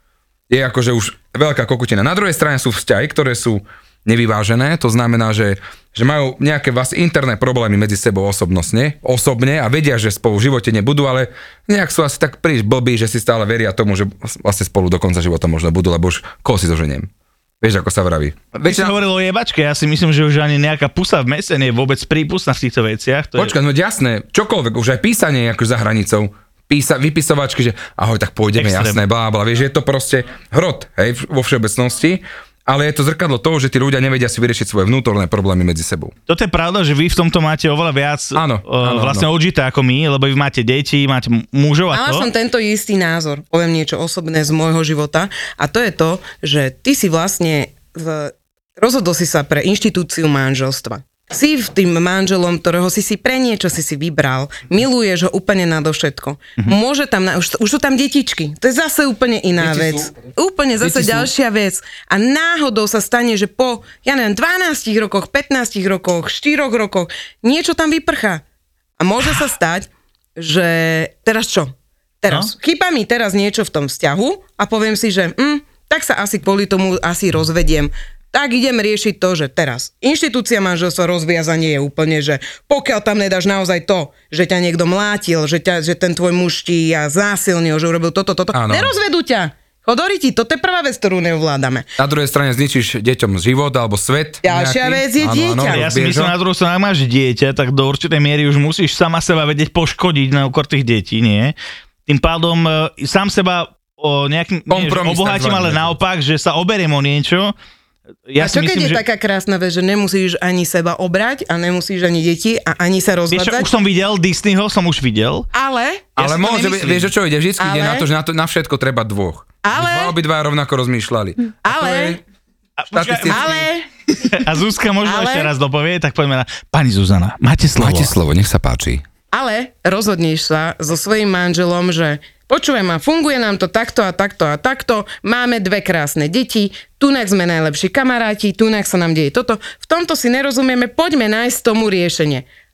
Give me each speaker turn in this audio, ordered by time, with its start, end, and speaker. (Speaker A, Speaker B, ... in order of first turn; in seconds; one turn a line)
Speaker A: 0.5-17.1
Speaker A: 17.6-18.9
Speaker B: 18.6-23.6
Speaker A: 23.4-36.1
Speaker B: 28.5-29.0
Speaker B: 36.3-42.3
Speaker A: 38.3-39.2
Speaker C: 41.9-68.4
Speaker A: 59.6-60.1
Speaker A: 60.8-61.2
Speaker B: 60.9-61.2
Speaker C: 69.0-91.8
Speaker A: 88.5-88.9
Speaker A: 92.0-96.3
Speaker C: 94.4-95.8
Speaker B: 95.6-101.5
Speaker B: 102.0-107.5
Speaker A: 104.7-106.0
Speaker B: 108.3-109.0
Speaker C: 108.4-113.7
Speaker B: 113.3-115.5
Speaker C: 115.5-116.8
Speaker A: 116.2-122.2
Speaker B: 116.2-117.0
Speaker C: 117.6-118.1
Speaker C: 119.6-120.1
Speaker C: 121.6-122.2
Speaker B: 122.8-123.5
Speaker A: 122.9-123.7
Speaker C: 123.3-123.8
Speaker B: 124.2-128.1
Speaker C: 125.0-125.5
Speaker A: 127.8-129.0
Speaker C: 129.3-142.4